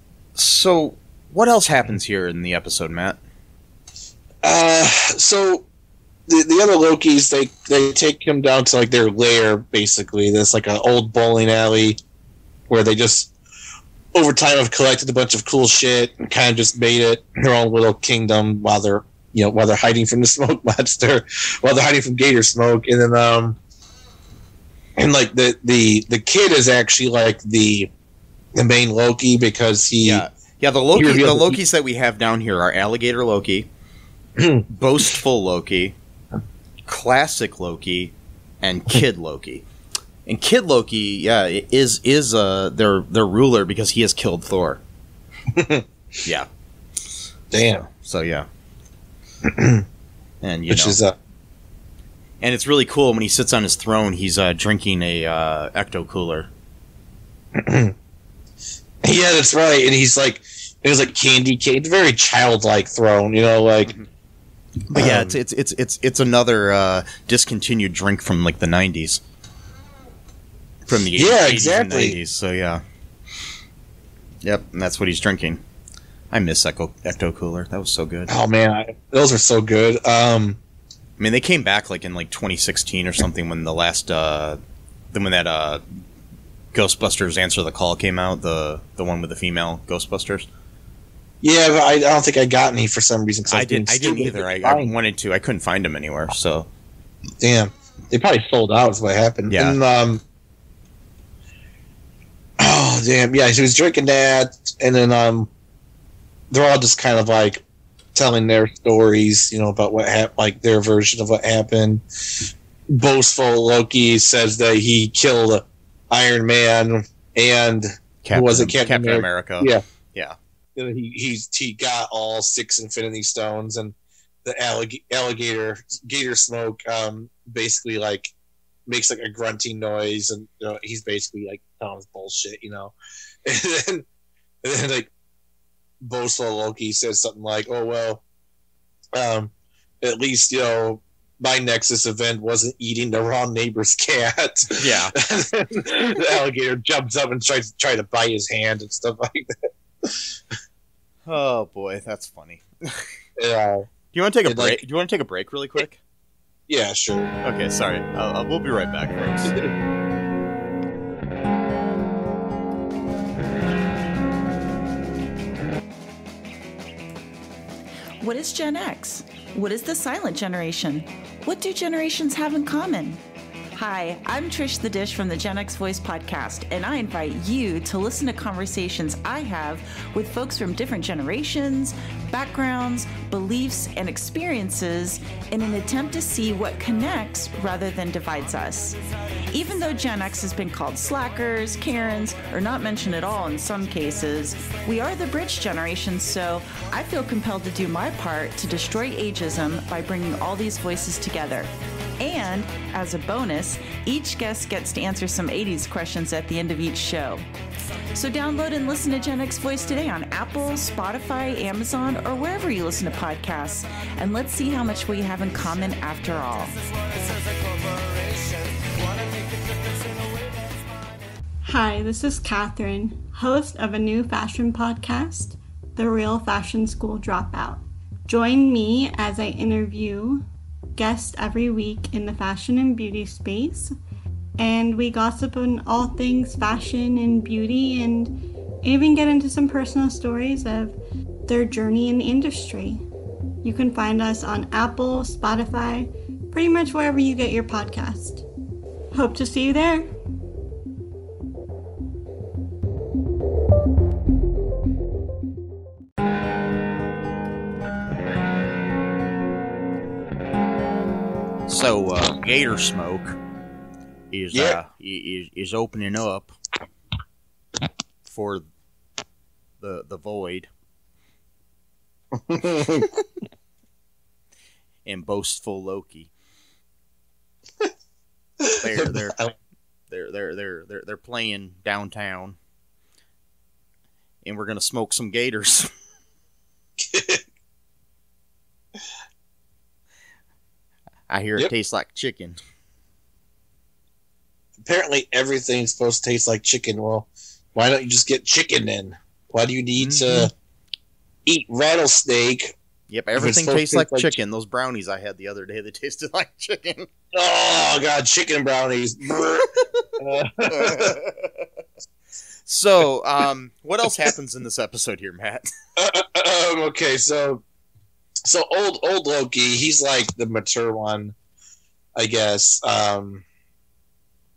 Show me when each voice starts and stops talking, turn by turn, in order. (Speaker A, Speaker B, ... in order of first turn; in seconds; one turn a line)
Speaker A: 0.3-3.2
Speaker B: 4.4-5.7
Speaker B: 6.3-12.0
Speaker B: 12.7-13.3
Speaker B: 14.1-23.6
Speaker B: 25.0-27.9
Speaker B: 28.5-30.2
Speaker A: 30.0-33.7
Speaker B: 30.9-31.6
Speaker B: 34.4-34.6
Speaker A: 34.7-35.9
Speaker A: 36.9-39.6
Speaker A: 40.2-44.8
Speaker B: 45.5-45.9
Speaker B: 47.5-47.9
Speaker A: 47.9-48.5
Speaker B: 49.4-49.8
Speaker A: 50.4-51.0
Speaker B: 50.7-51.1
Speaker A: 52.4-56.5
Speaker B: 57.5-57.9
Speaker B: 59.0-63.9
Speaker A: 64.9-69.2
Speaker B: 64.9-65.3
Speaker A: 70.9-72.8
Speaker B: 71.1-72.2
Speaker A: 74.4-75.6
Speaker A: 76.3-78.3
Speaker B: 78.3-80.6
Speaker A: 81.2-84.6
Speaker A: 85.1-85.8
Speaker A: 86.7-90.5
Speaker B: 91.4-94.9
Speaker A: 93.5-96.7
Speaker B: 97.4-100.2
Speaker A: 99.5-99.8
Speaker B: 102.6-105.5
Speaker B: 106.5-107.6
Speaker B: 108.1-119.8
Speaker A: 118.2-120.3
Speaker B: 120.8-128.3
Speaker B: 128.9-134.1
Speaker B: 134.6-135.1
Speaker B: 136.0-138.2
Speaker B: 139.1-150.3
Speaker A: 144.8-145.2
Speaker A: 151.2-153.1
Speaker B: 153.4-153.9
Speaker A: 154.1-156.0
Speaker B: 154.4-154.8
Speaker B: 156.7-157.3
Speaker A: 157.4-159.6
Speaker B: 159.4-159.7
Speaker C: 168.2-173.2
Speaker C: 173.7-189.0
Speaker C: 189.5-207.4
Speaker C: 208.1-216.8
Speaker D: 221.6-230.4
Speaker D: 230.9-233.9
Speaker D: 234.6-243.0
Speaker D: 243.6-248.4
Speaker D: 249.1-250.1
Speaker A: 261.7-263.4
Speaker A: 264.3-266.6
Speaker B: 264.5-264.8
Speaker A: 268.2-268.6
Speaker A: 269.8-270.7
Speaker B: 272.3-273.2
Speaker A: 275.0-276.3
Speaker B: 278.6-279.5
Speaker A: 278.8-279.4
Speaker A: 280.1-282.6
Speaker A: 284.4-285.9
Speaker B: 287.0-287.4
Speaker A: 291.3-292.6
Speaker B: 294.8-300.5
Speaker A: 300.0-300.5
Speaker B: 301.4-302.7
Speaker A: 303.1-307.1
Speaker B: 303.4-304.3
Speaker B: 307.3-311.2
Speaker A: 310.7-311.5
Speaker A: 312.7-315.7
Speaker B: 316.0-317.6
Speaker B: 318.4-321.3
Speaker B: 322.1-323.4